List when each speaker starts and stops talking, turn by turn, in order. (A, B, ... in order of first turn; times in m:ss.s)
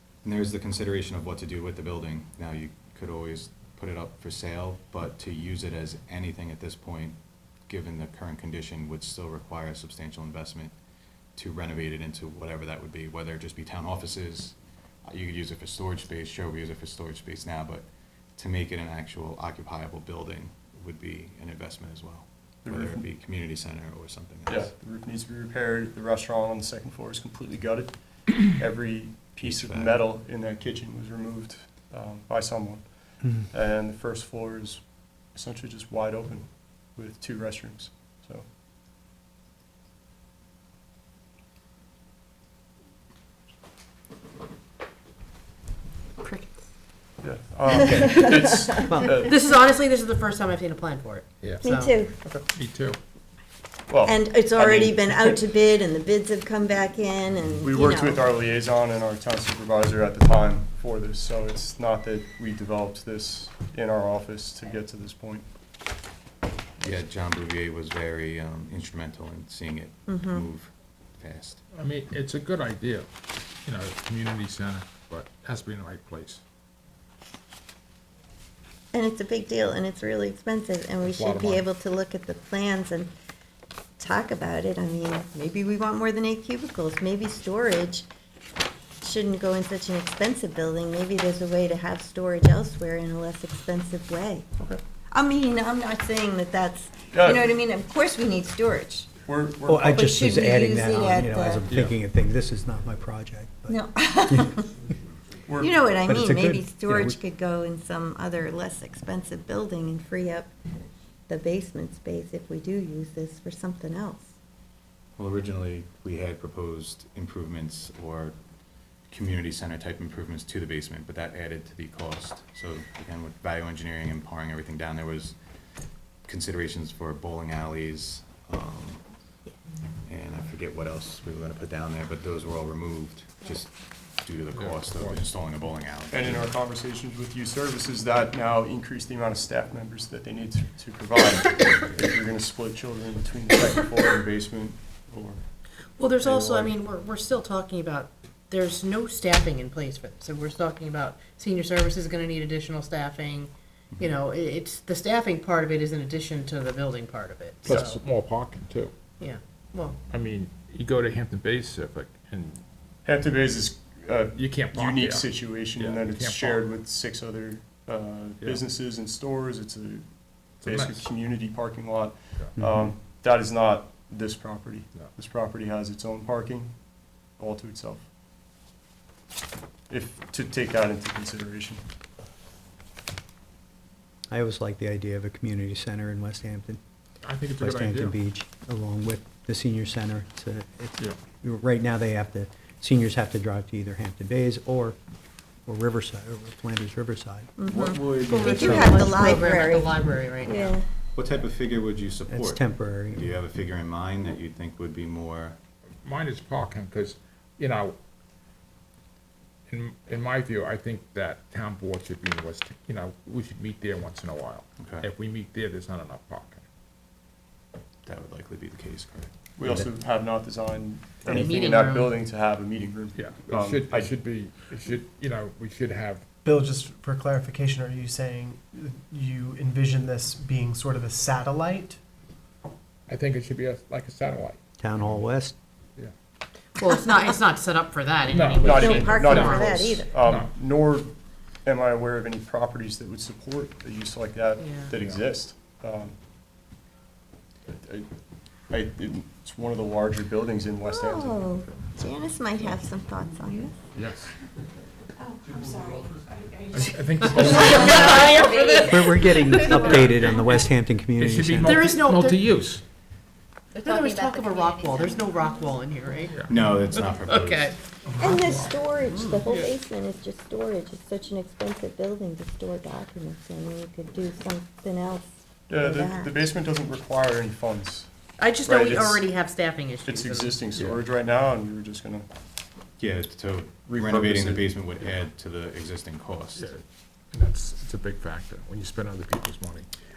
0:00.2-0:10.7 A
0:11.4-0:24.7 A
0:22.6-0:23.0 B
0:24.5-0:38.5 B
0:29.4-0:30.0 A
0:46.2-0:46.5 C
0:47.2-0:49.3 B
0:47.7-0:48.4 D
0:48.7-0:49.2 E
0:49.2-0:51.9 C
0:51.6-0:52.1 D
0:52.5-0:53.0 F
0:53.9-0:55.4 B
0:54.0-0:58.2 D
0:57.6-1:05.5 B
1:06.8-1:11.6 A
1:10.1-1:10.4 D
1:11.7-1:13.1 F
1:13.6-1:16.4 F
1:18.9-1:23.1 D
1:21.0-1:21.7 F
1:24.0-1:28.1 D
1:29.0-1:34.5 D
1:35.1-1:39.1 D
1:37.1-1:37.5 B
1:39.2-1:40.4 B
1:39.7-1:44.5 E
1:39.9-1:41.7 D
1:43.7-1:44.7 D
1:45.5-1:45.8 B
1:45.6-1:50.5 D
1:46.0-1:47.2 E
1:51.3-1:54.3 D
1:55.2-1:58.4 A
1:59.1-2:05.4 A
2:06.2-2:09.0 A
2:10.0-2:16.5 A
2:14.5-2:15.2 F
2:16.1-2:25.4 B
2:26.0-2:38.0 C
2:26.2-2:26.8 B
2:37.6-2:38.9 F
2:39.2-2:40.0 C
2:40.1-2:42.6 F
2:43.0-2:56.8 B
2:44.3-2:46.6 F
2:50.6-2:51.0 F
2:52.6-2:52.9 E
2:57.3-2:58.1 B
2:59.9-3:01.8 B
3:04.3-3:06.8 E
3:07.2-3:08.2 F
3:07.6-3:15.0 E
3:15.6-3:17.5 E
3:17.6-3:20.9 D
3:17.6-3:19.3 A
3:18.3-3:20.7 C
3:18.5-3:19.6 G
3:18.5-3:19.4 E
3:21.2-3:25.6 A
3:22.3-3:23.4 E
3:26.0-3:28.0 F
3:29.7-3:36.6 F
3:34.8-3:35.1 A
3:38.1-3:39.9 A
3:39.6-3:44.1 B
3:41.3-3:42.1 C
3:43.2-3:46.2 F
3:46.4-3:52.0 G
3:53.1-3:55.1 F
3:54.8-3:55.6 E
3:56.8-3:59.8 C
3:58.3-3:59.6 F
3:58.4-3:59.1 G
3:58.6-4:00.1 D
3:58.6-4:06.2 B
4:00.2-4:00.5 F
4:04.6-4:04.9 C
4:07.7-4:08.1 B
4:08.7-4:11.8 B
4:10.9-4:13.8 D
4:14.0-4:14.3 F
4:16.7-4:18.4 F
4:17.6-4:18.4 D
4:17.8-4:19.0 G
4:18.2-4:19.6 C
4:18.8-4:21.8 E
4:19.6-4:22.8 F
4:21.6-4:22.4 C
4:23.8-4:27.8 C
4:23.8-4:25.7 D
4:24.4-4:25.2 G
4:26.3-4:26.6 F
4:26.4-4:27.8 A
4:28.0-4:28.8 F
4:28.2-4:36.3 D
4:29.1-4:29.5 C
4:35.7-4:38.1 B
4:38.4-4:40.5 C
4:38.6-4:39.3 B
4:40.0-4:42.3 B
4:40.8-4:41.0 F
4:43.0-4:46.7 A
4:43.9-4:44.7 B
4:46.6-4:49.9 F